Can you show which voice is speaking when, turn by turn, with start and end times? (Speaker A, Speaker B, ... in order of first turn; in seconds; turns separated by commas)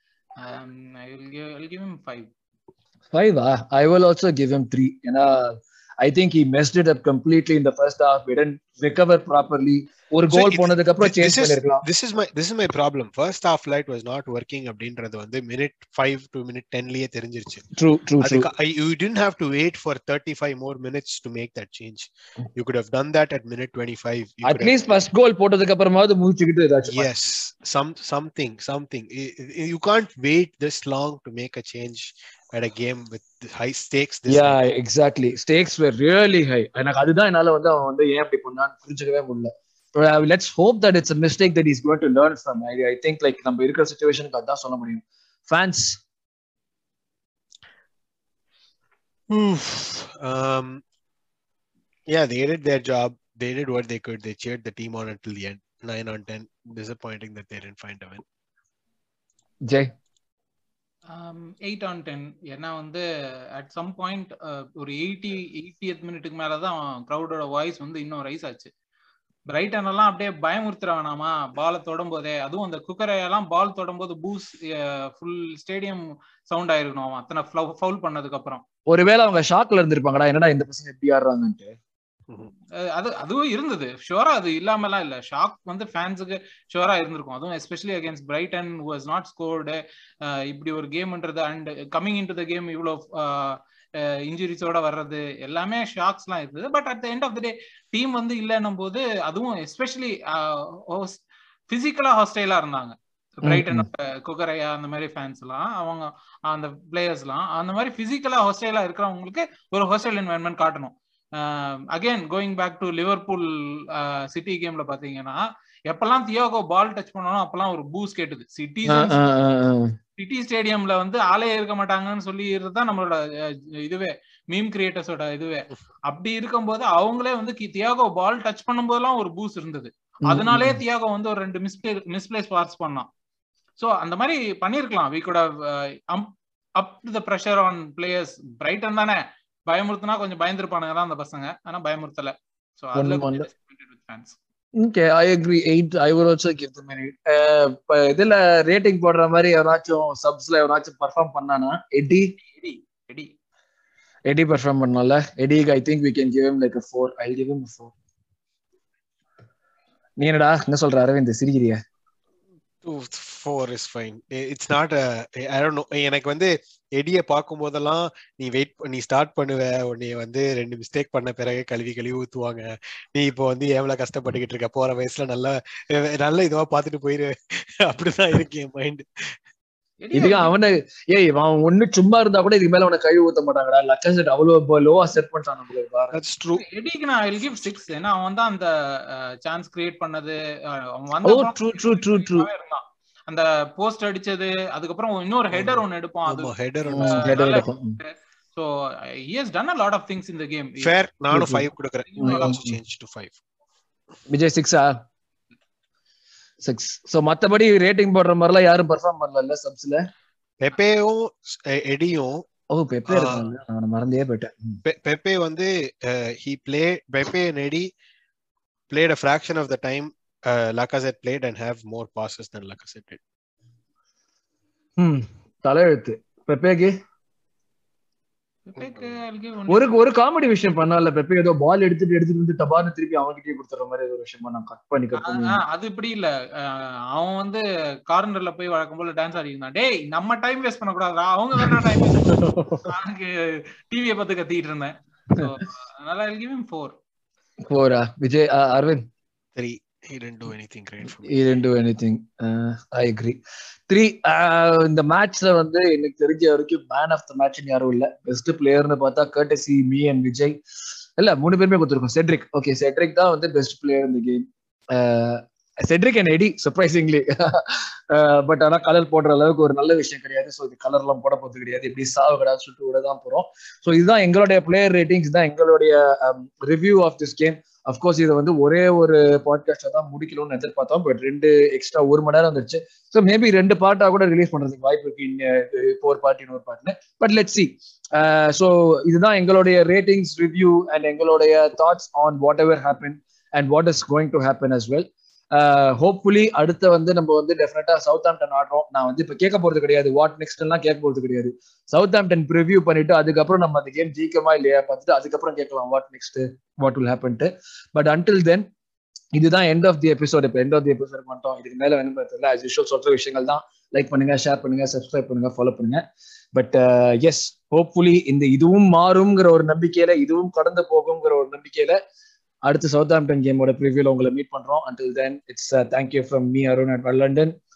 Speaker A: 0.4-2.3, Speaker B: 3.1-11.8, Speaker C: 10.3-17.7, Speaker B: 17.8-18.5, Speaker C: 18.2-24.9, Speaker B: 24.4-27.2, Speaker C: 26.9-34.6, Speaker B: 34.3-46.0, Speaker C: 49.3-50.8, Speaker C: 52.1-58.2, Speaker A: 61.1-68.7, Speaker A: 69.5-78.6, Speaker B: 78.9-81.8, Speaker A: 82.8-119.1, Speaker B: 103.4-103.9, Speaker B: 118.9-120.0, Speaker A: 120.2-133.1, Speaker B: 130.3-130.8, Speaker A: 133.8-144.4, Speaker B: 142.9-143.5, Speaker B: 144.8-152.3, Speaker A: 152.5-153.3, Speaker B: 154.3-157.9, Speaker B: 160.2-161.8, Speaker C: 162.8-179.3, Speaker A: 180.0-180.5, Speaker B: 180.1-186.2, Speaker C: 186.1-186.6, Speaker A: 186.5-200.9, Speaker B: 191.2-192.5, Speaker C: 195.5-197.6, Speaker B: 196.9-198.0, Speaker C: 200.8-203.3, Speaker B: 201.3-201.7, Speaker A: 202.1-202.5, Speaker B: 202.2-202.8, Speaker B: 204.3-204.9, Speaker B: 206.6-210.1, Speaker C: 210.6-212.4, Speaker B: 212.7-214.8, Speaker C: 213.1-213.4, Speaker C: 214.8-217.9, Speaker C: 218.9-223.2, Speaker B: 225.0-226.9, Speaker A: 228.7-230.0, Speaker C: 228.8-229.2, Speaker B: 229.7-235.6, Speaker A: 235.2-246.9, Speaker B: 241.6-242.9, Speaker B: 247.7-249.0, Speaker C: 249.5-251.4, Speaker B: 251.2-253.4, Speaker B: 253.9-260.6, Speaker B: 261.2-308.7, Speaker B: 309.3-316.0, Speaker B: 316.5-322.0, Speaker B: 322.6-327.5